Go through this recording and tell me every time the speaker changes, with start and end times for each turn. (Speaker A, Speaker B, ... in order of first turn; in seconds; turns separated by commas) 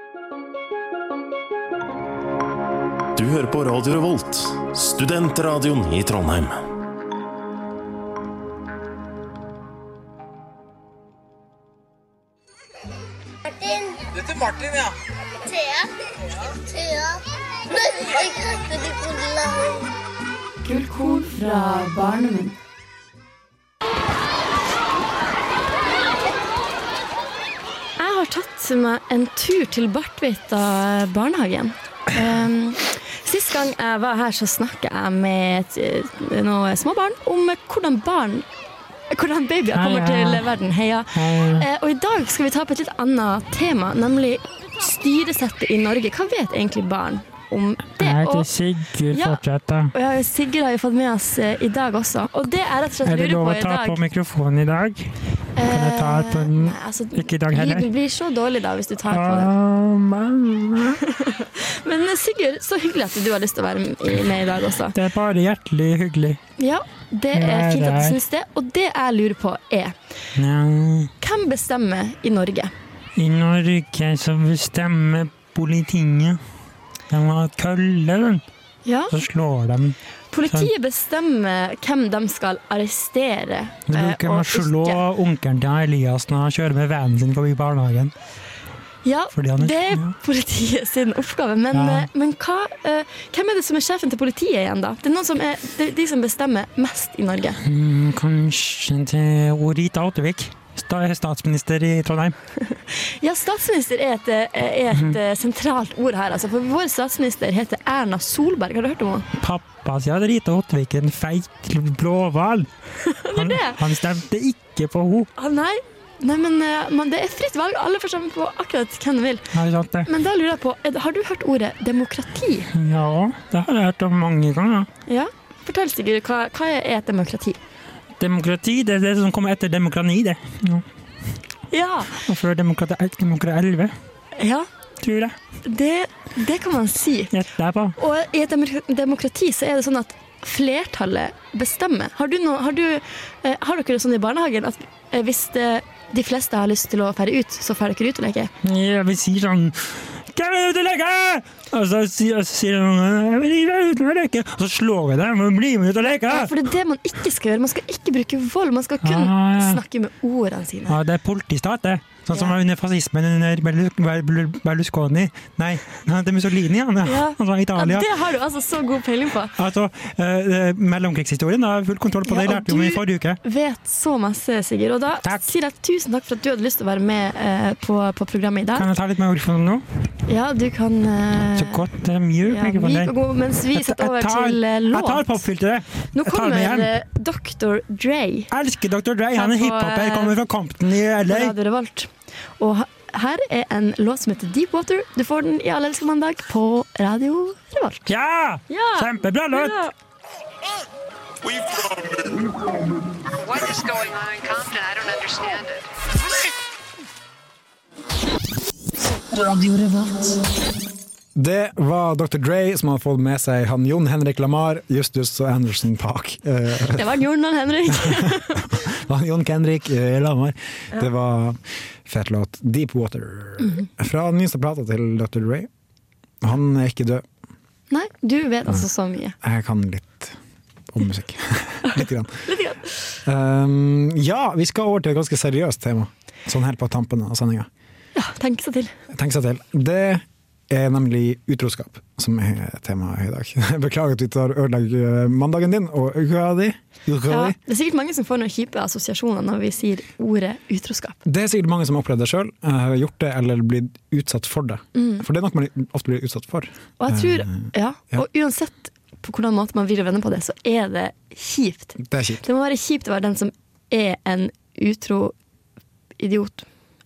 Speaker A: 3.2-6.6, Speaker B: 13.4-14.1, Speaker B: 15.4-15.9, Speaker B: 16.4-19.9, Speaker C: 20.6-22.6, Speaker C: 28.0-38.5, Speaker C: 39.1-48.5, Speaker D: 39.7-40.5, Speaker D: 41.1-41.7, Speaker D: 48.0-49.9, Speaker C: 49.1-54.0, Speaker D: 53.0-57.9, Speaker C: 55.6-59.5, Speaker D: 59.1-61.0, Speaker C: 60.9-65.0, Speaker D: 64.9-66.4, Speaker C: 66.6-70.0, Speaker D: 67.3-68.2, Speaker D: 70.4-71.1, Speaker C: 71.2-72.7, Speaker D: 73.2-76.4, Speaker D: 77.1-78.4, Speaker C: 78.8-79.2, Speaker D: 79.1-80.7, Speaker C: 80.3-85.0, Speaker D: 83.9-88.1, Speaker C: 89.0-97.6, Speaker D: 89.3-90.2, Speaker D: 91.7-92.1, Speaker D: 97.6-102.3, Speaker C: 102.7-109.3, Speaker D: 104.9-105.2, Speaker D: 109.4-112.7, Speaker C: 113.0-113.8, Speaker D: 113.3-115.3, Speaker C: 115.4-122.7, Speaker D: 119.5-120.1, Speaker D: 122.7-124.9, Speaker C: 125.1-127.6, Speaker D: 128.2-130.8, Speaker C: 131.7-132.2, Speaker D: 132.2-133.9, Speaker C: 134.3-134.7, Speaker D: 135.0-135.3, Speaker C: 135.6-137.3, Speaker D: 137.3-138.0, Speaker C: 138.0-148.5, Speaker D: 148.6-156.5, Speaker C: 156.3-161.0, Speaker D: 159.0-159.8, Speaker D: 160.9-168.1, Speaker C: 162.3-162.6, Speaker C: 167.0-169.6, Speaker D: 169.6-173.4, Speaker C: 172.2-178.9, Speaker D: 175.2-175.5, Speaker D: 178.8-179.8, Speaker C: 180.3-181.9, Speaker D: 181.6-183.2, Speaker C: 182.4-185.4, Speaker D: 183.7-186.9, Speaker C: 186.1-188.5, Speaker D: 188.5-191.6, Speaker C: 189.3-190.4, Speaker C: 191.3-198.1, Speaker D: 198.1-199.9, Speaker C: 198.7-199.9, Speaker E: 203.4-205.8, Speaker F: 211.4-217.1, Speaker C: 216.9-218.7, Speaker F: 218.0-225.7, Speaker F: 226.4-227.2, Speaker C: 227.9-229.4, Speaker F: 229.4-230.4, Speaker F: 230.9-232.5, Speaker C: 231.9-233.1, Speaker F: 233.3-237.7, Speaker C: 238.2-238.9, Speaker F: 239.1-247.6, Speaker C: 247.3-251.2, Speaker F: 251.2-258.2, Speaker C: 254.9-255.2, Speaker C: 257.0-265.4, Speaker F: 262.0-262.5, Speaker C: 266.2-266.7